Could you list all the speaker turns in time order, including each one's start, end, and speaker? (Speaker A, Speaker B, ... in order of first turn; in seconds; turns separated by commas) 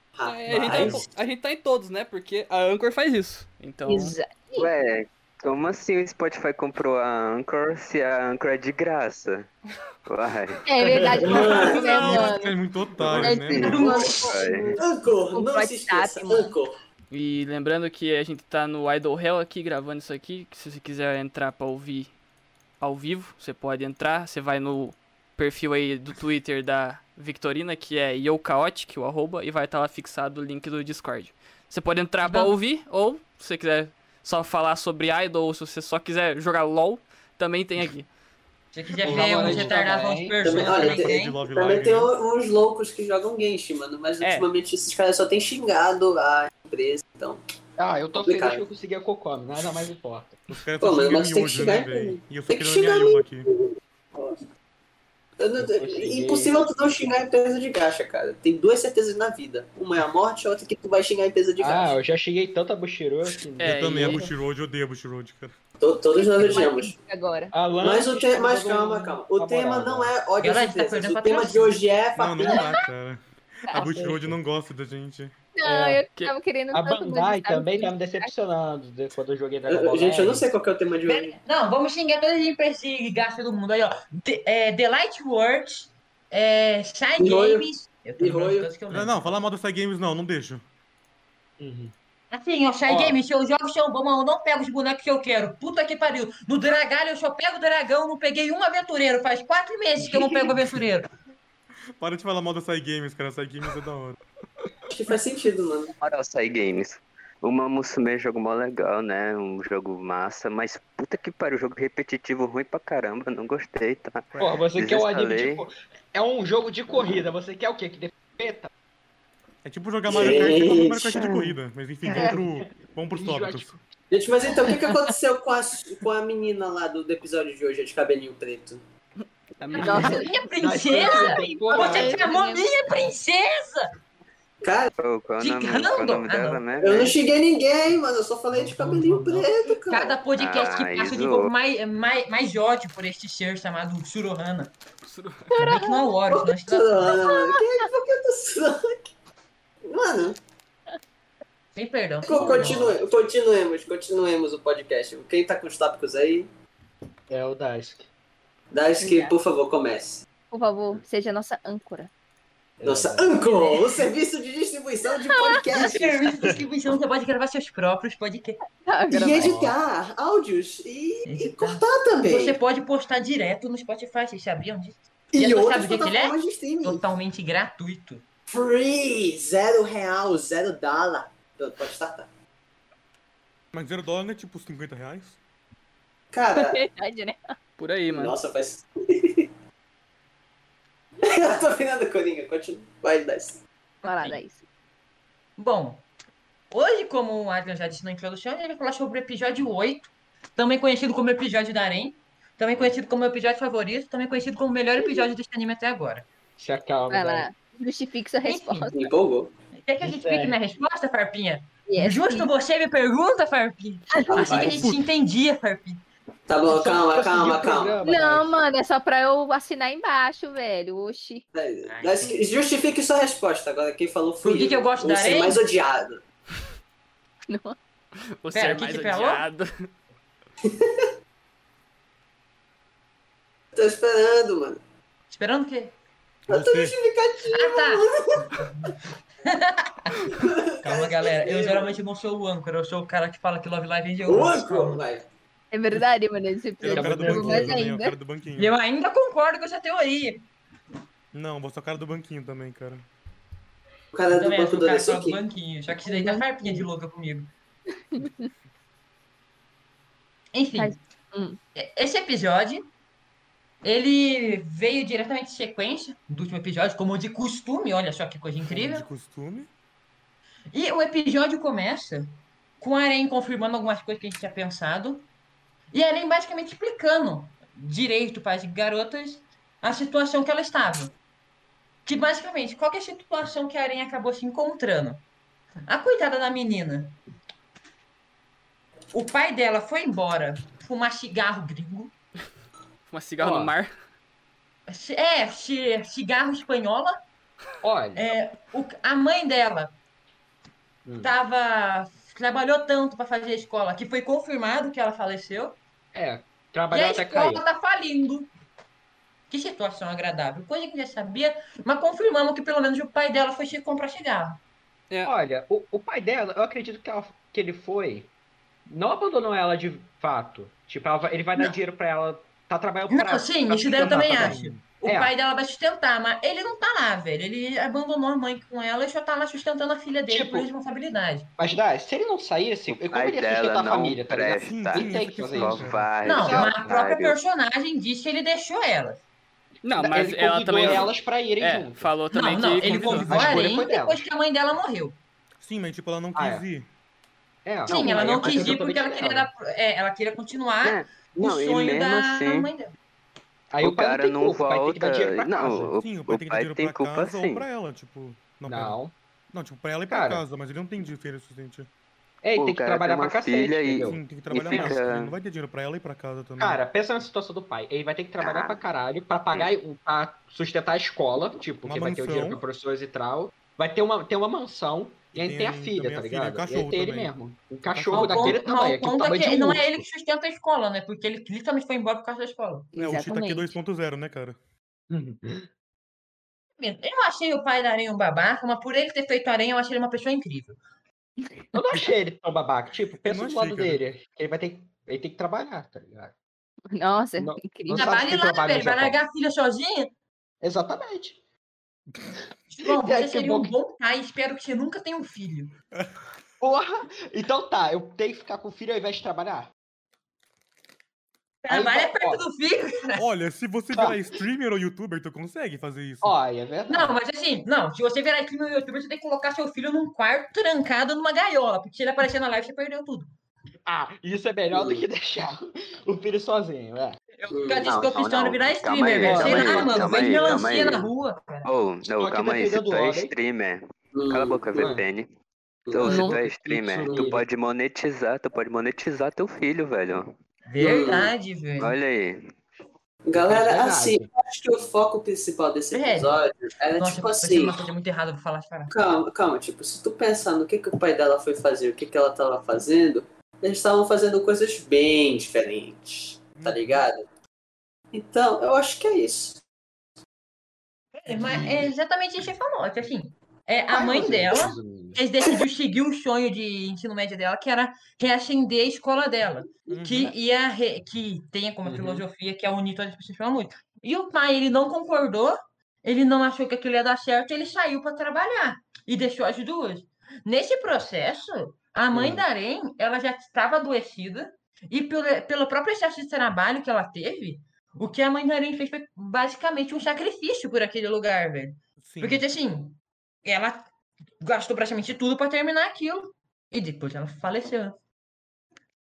Speaker A: 0.1-1.1, Speaker B: 0.2-4.2, Speaker C: 0.6-1.1, Speaker D: 3.9-4.7, Speaker E: 4.5-9.5, Speaker E: 10.1-11.1, Speaker D: 10.6-16.5, Speaker F: 10.9-11.5, Speaker A: 11.2-12.2, Speaker C: 11.3-14.0, Speaker E: 13.1-14.8, Speaker G: 13.7-14.1, Speaker A: 14.8-16.7, Speaker B: 17.1-22.1, Speaker B: 22.8-38.1, Speaker G: 32.2-32.5, Speaker G: 38.7-41.4, Speaker C: 39.0-39.8, Speaker F: 39.0-40.4, Speaker A: 40.4-47.4, Speaker C: 40.5-42.1, Speaker B: 44.2-44.5, Speaker F: 47.8-50.6, Speaker A: 48.1-48.6, Speaker C: 50.5-53.5, Speaker A: 50.8-54.5, Speaker A: 55.4-61.9, Speaker F: 55.6-56.6, Speaker F: 61.6-64.3, Speaker B: 63.6-64.3, Speaker C: 63.6-65.6, Speaker A: 65.8-66.9, Speaker D: 66.1-67.5, Speaker F: 67.5-70.1, Speaker A: 67.8-72.7, Speaker G: 70.4-71.8, Speaker C: 72.2-75.3, Speaker D: 72.4-72.8, Speaker D: 73.7-74.2, Speaker F: 73.8-74.3, Speaker D: 75.5-78.3, Speaker F: 75.7-76.0, Speaker F: 76.7-80.5, Speaker A: 79.7-81.4, Speaker G: 81.1-89.3, Speaker A: 87.2-87.7, Speaker A: 88.2-88.7, Speaker C: 88.9-90.6, Speaker F: 91.6-91.9, Speaker G: 92.3-101.1, Speaker F: 92.9-93.2, Speaker F: 100.0-100.8, Speaker C: 102.0-104.2, Speaker A: 104.9-105.9, Speaker E: 106.0-115.7, Speaker F: 114.4-118.7, Speaker C: 119.6-123.7, Speaker A: 120.1-121.1, Speaker E: 121.1-121.5, Speaker D: 122.1-122.4, Speaker F: 122.1-122.5, Speaker F: 123.1-123.8, Speaker A: 124.1-128.8, Speaker F: 129.6-132.2, Speaker B: 129.7-130.1, Speaker D: 129.8-132.7, Speaker G: 129.9-133.8, Speaker A: 134.6-134.9, Speaker E: 135.0-137.2, Speaker G: 135.4-136.7, Speaker A: 136.8-140.2, Speaker G: 138.7-144.7, Speaker E: 140.3-141.5, Speaker B: 145.0-145.5, Speaker G: 145.5-147.2, Speaker A: 146.3-149.1, Speaker D: 147.1-147.9, Speaker A: 149.8-150.4, Speaker G: 151.8-152.9, Speaker A: 152.2-156.5, Speaker D: 152.3-152.7, Speaker F: 152.4-153.0, Speaker F: 157.3-158.1, Speaker A: 158.7-160.2, Speaker D: 159.0-159.4, Speaker D: 160.5-162.1, Speaker F: 162.8-163.4, Speaker A: 162.8-166.3, Speaker D: 163.4-164.1, Speaker D: 165.2-165.7, Speaker G: 165.7-168.6, Speaker D: 168.8-169.6, Speaker A: 169.1-172.6, Speaker F: 169.4-169.7, Speaker G: 171.3-178.2, Speaker A: 175.3-177.0, Speaker A: 178.5-182.3, Speaker C: 183.7-185.4, Speaker A: 186.3-186.8, Speaker D: 186.5-187.5, Speaker B: 187.8-188.3, Speaker A: 188.1-189.5, Speaker A: 191.2-193.6, Speaker D: 194.0-194.6, Speaker B: 194.1-194.4, Speaker G: 195.6-196.0, Speaker G: 196.7-206.2, Speaker D: 205.0-205.3, Speaker F: 206.6-207.5, Speaker D: 207.1-209.1, Speaker G: 208.4-208.9, Speaker A: 208.9-209.5, Speaker G: 209.8-216.0, Speaker F: 210.0-210.6, Speaker D: 211.9-212.5, Speaker D: 214.1-214.7, Speaker A: 214.3-214.8, Speaker C: 214.7-215.1, Speaker A: 216.5-218.0, Speaker G: 216.7-217.2, Speaker F: 216.9-218.5, Speaker D: 218.0-221.4, Speaker A: 221.5-226.2, Speaker G: 221.8-222.4, Speaker G: 224.4-225.6, Speaker D: 227.5-227.8, Speaker B: 228.4-229.9, Speaker G: 228.5-229.4, Speaker A: 230.6-231.1, Speaker A: 233.7-234.8, Speaker G: 235.3-235.9, Speaker C: 236.5-237.0, Speaker A: 236.5-238.7, Speaker G: 237.5-245.0, Speaker A: 240.3-242.0, Speaker A: 244.2-245.2, Speaker D: 245.7-248.2, Speaker C: 246.8-248.7, Speaker F: 246.9-247.8, Speaker G: 248.6-250.5, Speaker C: 251.3-253.1, Speaker A: 254.1-255.4, Speaker G: 254.3-257.5, Speaker D: 256.1-256.9, Speaker D: 258.1-258.5, Speaker G: 260.5-261.0, Speaker D: 260.8-261.6, Speaker G: 261.8-262.8, Speaker G: 263.8-269.1, Speaker C: 268.7-269.7, Speaker G: 270.7-272.3, Speaker G: 272.8-275.3, Speaker G: 275.9-281.1, Speaker G: 282.1-285.2, Speaker G: 285.9-287.1, Speaker G: 289.1-292.1, Speaker B: 293.1-293.9, Speaker F: 293.4-293.7, Speaker G: 294.9-297.2, Speaker F: 297.8-298.2, Speaker G: 298.1-299.9, Speaker F: 301.0-301.3, Speaker G: 301.2-305.8, Speaker F: 306.1-307.6, Speaker G: 306.9-308.5, Speaker G: 309.5-314.6, Speaker F: 315.2-318.3, Speaker F: 318.9-325.3, Speaker G: 323.1-331.5, Speaker C: 324.3-324.6, Speaker F: 330.3-330.7, Speaker F: 331.6-336.8, Speaker E: 333.0-337.4, Speaker C: 334.6-336.0, Speaker G: 336.2-339.2, Speaker B: 339.8-343.3, Speaker F: 340.0-342.1, Speaker G: 342.3-345.1, Speaker F: 342.8-344.2, Speaker C: 345.6-346.9, Speaker F: 346.3-346.6, Speaker F: 347.6-349.5, Speaker E: 347.9-348.7, Speaker G: 347.9-352.9, Speaker E: 350.8-352.7, Speaker F: 353.7-355.9, Speaker E: 353.8-357.7, Speaker C: 356.0-359.0, Speaker F: 358.6-359.1, Speaker C: 359.5-361.9, Speaker F: 360.1-360.4, Speaker F: 362.4-365.0, Speaker E: 362.6-365.4, Speaker C: 364.0-366.8, Speaker F: 366.6-380.0, Speaker E: 368.4-368.8, Speaker C: 371.9-372.6, Speaker C: 375.3-377.3, Speaker C: 377.9-378.6, Speaker G: 378.1-382.9, Speaker D: 382.9-383.8, Speaker C: 382.9-384.6, Speaker F: 385.1-385.6, Speaker G: 386.8-390.8, Speaker F: 391.7-396.3, Speaker D: 391.8-392.0, Speaker C: 393.2-394.0, Speaker D: 396.9-398.1, Speaker F: 397.4-399.2, Speaker G: 397.9-400.1, Speaker F: 400.6-401.4, Speaker G: 402.7-405.7, Speaker F: 402.8-403.7, Speaker F: 406.6-409.7, Speaker G: 411.6-413.2, Speaker F: 411.7-412.4, Speaker C: 413.1-416.4, Speaker F: 416.2-417.2, Speaker G: 416.9-423.3, Speaker F: 423.9-427.2, Speaker A: 424.7-425.0, Speaker G: 427.4-431.7, Speaker A: 427.5-427.9, Speaker E: 427.8-431.1, Speaker F: 429.2-430.7, Speaker E: 431.6-435.3, Speaker F: 432.2-433.3, Speaker A: 434.1-435.0, Speaker F: 434.7-435.0, Speaker A: 435.9-436.3, Speaker E: 435.9-440.3, Speaker F: 436.0-437.4, Speaker D: 436.1-436.4, Speaker A: 437.0-437.3, Speaker G: 440.7-441.9, Speaker A: 440.8-441.3, Speaker E: 441.8-442.5, Speaker A: 443.2-447.8, Speaker F: 443.3-444.3, Speaker G: 445.9-446.4, Speaker G: 447.0-448.9, Speaker A: 448.9-457.2, Speaker C: 456.6-457.0, Speaker A: 458.1-459.6, Speaker G: 461.2-493.8, Speaker F: 461.3-461.8, Speaker F: 463.9-465.2, Speaker C: 469.9-470.3, Speaker F: 471.8-472.2, Speaker F: 482.1-482.4, Speaker C: 492.0-492.4, Speaker G: 494.4-497.9